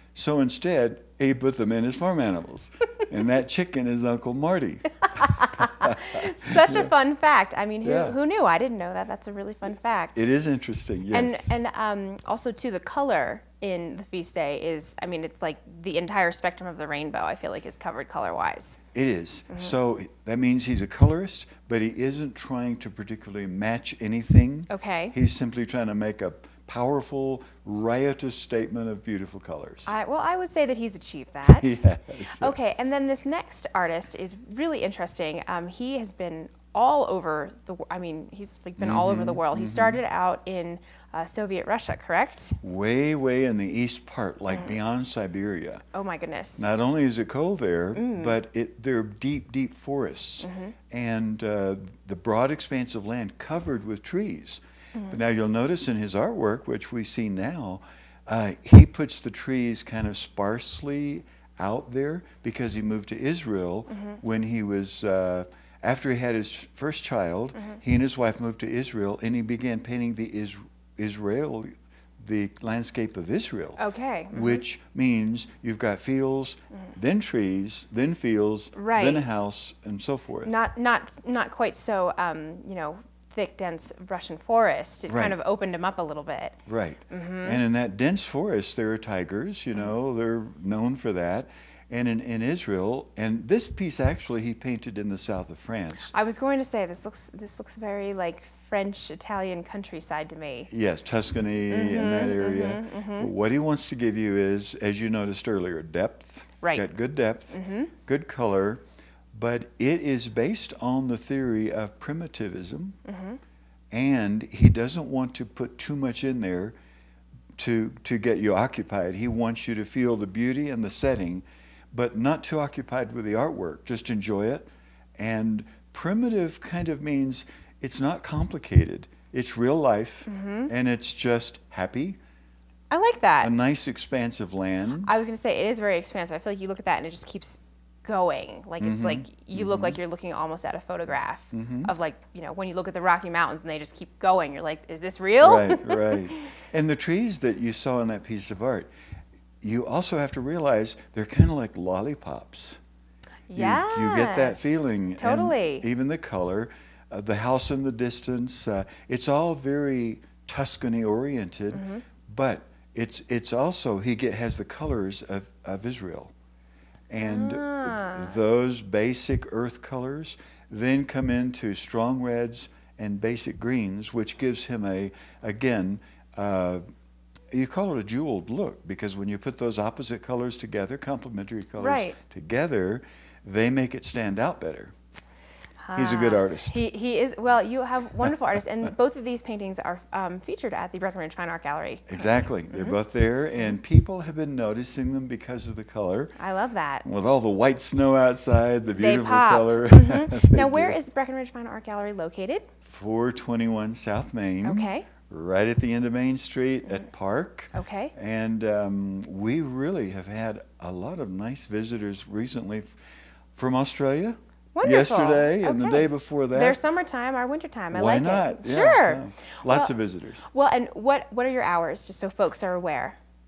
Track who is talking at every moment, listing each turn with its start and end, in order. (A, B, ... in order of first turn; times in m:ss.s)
0:00.1-0:06.9 A
0:05.2-0:10.2 B
0:07.8-0:08.2 A
0:10.1-0:11.5 A
0:11.1-0:18.8 B
0:18.9-0:29.9 A
0:19.5-0:19.7 B
0:24.7-0:25.1 B
0:29.8-0:42.6 B
0:31.4-0:32.6 A
0:38.8-0:40.0 A
0:42.6-0:45.8 A
0:44.5-0:44.7 B
0:45.9-0:46.6 B
0:46.6-1:13.8 A
0:47.9-0:48.3 B
0:50.4-0:50.7 B
1:03.9-1:04.2 B
1:13.8-1:14.6 B
1:14.3-1:20.5 A
1:18.7-1:19.2 B
1:20.4-1:26.6 B
1:25.1-1:25.4 A
1:26.6-1:36.1 A
1:27.1-1:27.6 B
1:36.1-1:40.7 B
1:40.7-1:48.8 A
1:41.7-1:43.3 B
1:47.5-1:47.9 B
1:49.3-1:53.0 A
1:53.0-1:53.4 B
1:53.9-1:56.8 A
1:57.6-2:12.2 A
2:10.3-2:10.7 B
2:12.9-2:13.5 B
2:13.4-2:15.1 A
2:15.0-2:26.4 B
2:18.8-2:20.0 A
2:21.5-2:21.9 A
2:25.4-2:28.9 A
2:29.6-2:32.8 A
2:33.5-2:35.8 B
2:33.5-2:46.3 A
2:41.7-2:42.0 B
2:47.1-2:56.8 A
2:47.2-2:48.4 B
2:57.5-3:04.9 A
3:01.8-3:02.2 B
3:05.8-3:13.0 B
3:05.9-3:06.8 A
3:12.1-3:16.3 A
3:16.4-3:17.0 B
3:17.0-3:21.0 A
3:19.0-3:22.7 B
3:22.8-3:33.0 A
3:24.6-3:25.1 B
3:27.7-3:28.1 B
3:33.5-3:36.8 A
3:34.7-3:39.9 B
3:37.9-3:40.4 A
3:40.4-3:43.2 B